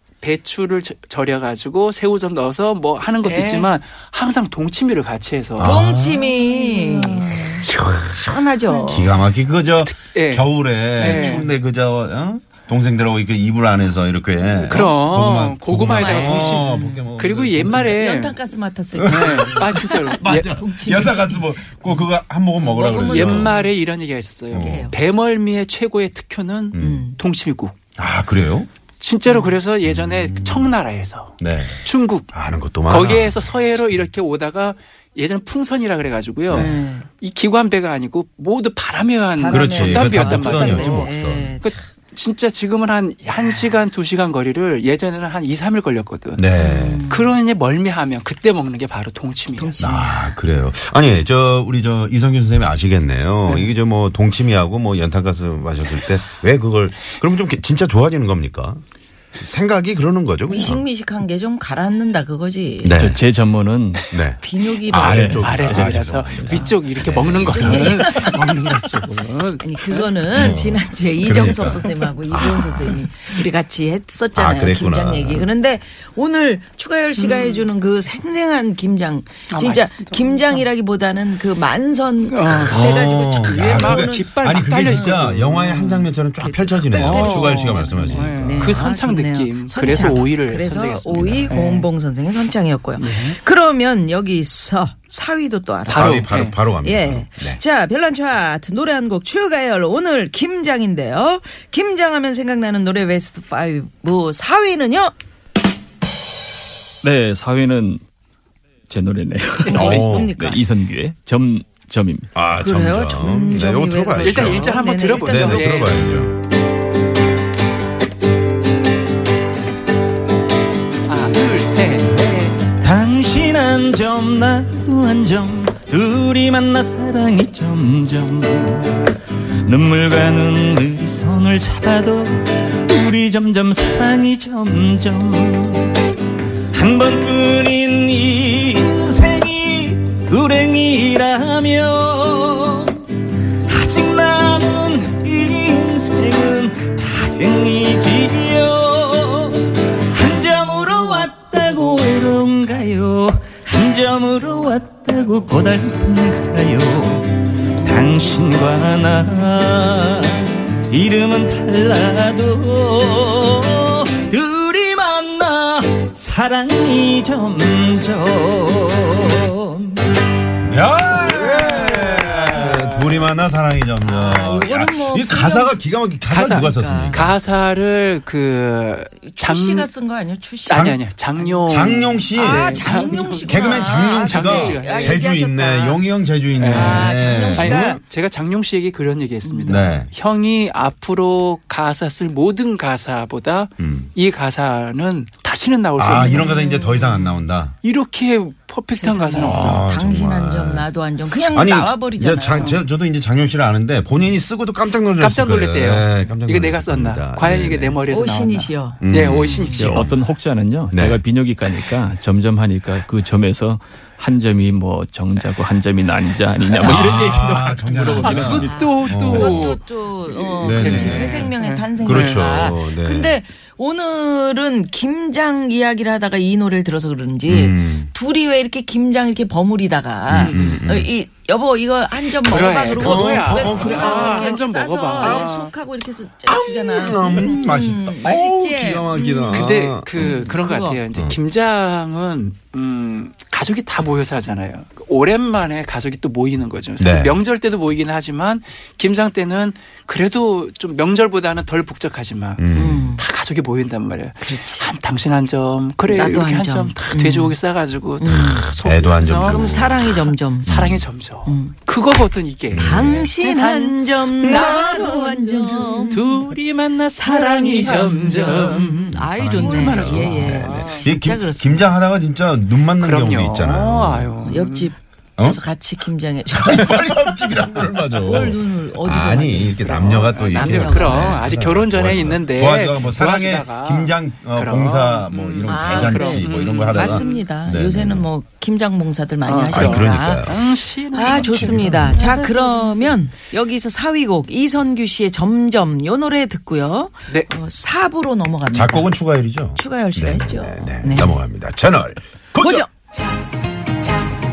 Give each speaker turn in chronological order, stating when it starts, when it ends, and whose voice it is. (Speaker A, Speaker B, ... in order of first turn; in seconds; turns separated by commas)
Speaker A: 0.2-5.8, Speaker B: 3.2-3.7, Speaker C: 5.6-6.3, Speaker B: 5.6-9.2, Speaker A: 6.4-8.9, Speaker C: 8.9-17.9, Speaker A: 9.8-11.4, Speaker B: 11.0-11.5, Speaker A: 14.6-18.4, Speaker B: 15.9-17.1, Speaker B: 17.6-21.5, Speaker C: 18.9-23.6, Speaker A: 19.0-20.5, Speaker B: 22.6-23.7, Speaker A: 22.6-27.7, Speaker C: 24.5-24.9, Speaker B: 24.5-24.9, Speaker C: 26.7-27.1, Speaker B: 26.8-27.2, Speaker C: 28.0-28.7, Speaker A: 29.0-32.3, Speaker B: 29.2-29.6, Speaker C: 29.8-30.7, Speaker C: 31.4-34.0, Speaker A: 32.9-46.5, Speaker C: 36.5-36.8, Speaker B: 36.5-37.1, Speaker B: 39.4-41.8, Speaker C: 39.5-41.6, Speaker C: 46.4-47.1, Speaker B: 46.5-47.3, Speaker A: 47.1-49.8, Speaker B: 49.5-50.4, Speaker C: 49.8-58.8, Speaker C: 59.4-60.8, Speaker B: 60.5-63.1, Speaker C: 62.8-63.2, Speaker D: 62.9-64.0, Speaker C: 64.1-68.5, Speaker B: 64.4-65.3, Speaker A: 64.9-70.3, Speaker D: 65.1-66.0, Speaker B: 67.6-68.5, Speaker B: 69.6-85.5, Speaker C: 70.3-73.0, Speaker C: 74.3-75.5, Speaker A: 77.2-77.6, Speaker A: 79.5-80.7, Speaker A: 82.2-86.1, Speaker C: 82.6-88.7, Speaker B: 86.3-105.1, Speaker A: 86.9-91.9, Speaker C: 91.1-91.5, Speaker A: 93.0-93.4, Speaker A: 95.9-96.5, Speaker C: 95.9-97.6, Speaker D: 107.0-108.0, Speaker D: 108.9-112.3, Speaker B: 109.6-110.6, Speaker C: 109.7-110.3, Speaker A: 109.8-110.0, Speaker C: 112.3-116.4, Speaker B: 112.6-115.8, Speaker A: 114.2-116.1, Speaker A: 121.0-122.7, Speaker D: 122.8-129.1, Speaker D: 129.6-136.0, Speaker D: 136.7-143.1, Speaker D: 143.7-170.0, Speaker C: 170.6-177.3, Speaker D: 171.4-172.7, Speaker B: 174.0-177.3, Speaker A: 176.3-179.9, Speaker B: 179.2-181.8, Speaker A: 180.7-185.2, Speaker C: 180.7-181.0, Speaker C: 181.7-187.9, Speaker B: 182.3-186.0, Speaker A: 186.6-196.7, Speaker B: 186.7-188.0, Speaker B: 189.4-189.9, Speaker C: 189.7-190.1, Speaker C: 193.8-194.1, Speaker C: 196.0-197.8, Speaker B: 196.2-197.4, Speaker A: 197.8-199.8, Speaker B: 198.9-202.8, Speaker C: 199.4-200.9, Speaker C: 201.4-208.0, Speaker A: 202.6-202.8, Speaker A: 205.2-210.0, Speaker B: 208.1-209.9, Speaker C: 209.0-210.1, Speaker D: 209.8-218.8, Speaker C: 210.9-211.2, Speaker C: 216.8-219.8, Speaker A: 218.2-222.4, Speaker B: 218.5-241.0, Speaker C: 220.6-223.4, Speaker C: 227.4-228.1, Speaker C: 230.3-231.1, Speaker A: 230.4-230.8, Speaker A: 232.4-235.7, Speaker C: 232.5-234.5, Speaker C: 235.2-235.5, Speaker C: 236.4-240.3, Speaker A: 239.5-259.8, Speaker C: 247.0-247.4, Speaker C: 252.6-253.2, Speaker B: 252.7-253.2, Speaker B: 254.4-254.9, Speaker B: 256.1-257.6, Speaker B: 258.2-258.6, Speaker C: 258.2-261.0, Speaker B: 259.4-260.9, Speaker A: 260.6-271.0, Speaker B: 261.4-261.8, Speaker C: 262.7-263.3, Speaker B: 262.7-266.5, Speaker B: 267.2-271.9, Speaker C: 268.6-274.4, Speaker A: 273.0-274.9, Speaker B: 274.4-281.4, Speaker C: 276.5-288.3, Speaker A: 280.0-287.4, Speaker B: 285.6-299.1, Speaker A: 289.4-293.2, Speaker C: 289.7-290.6, Speaker C: 291.2-292.2, Speaker C: 298.7-302.9, Speaker B: 299.7-301.4, Speaker B: 302.6-303.1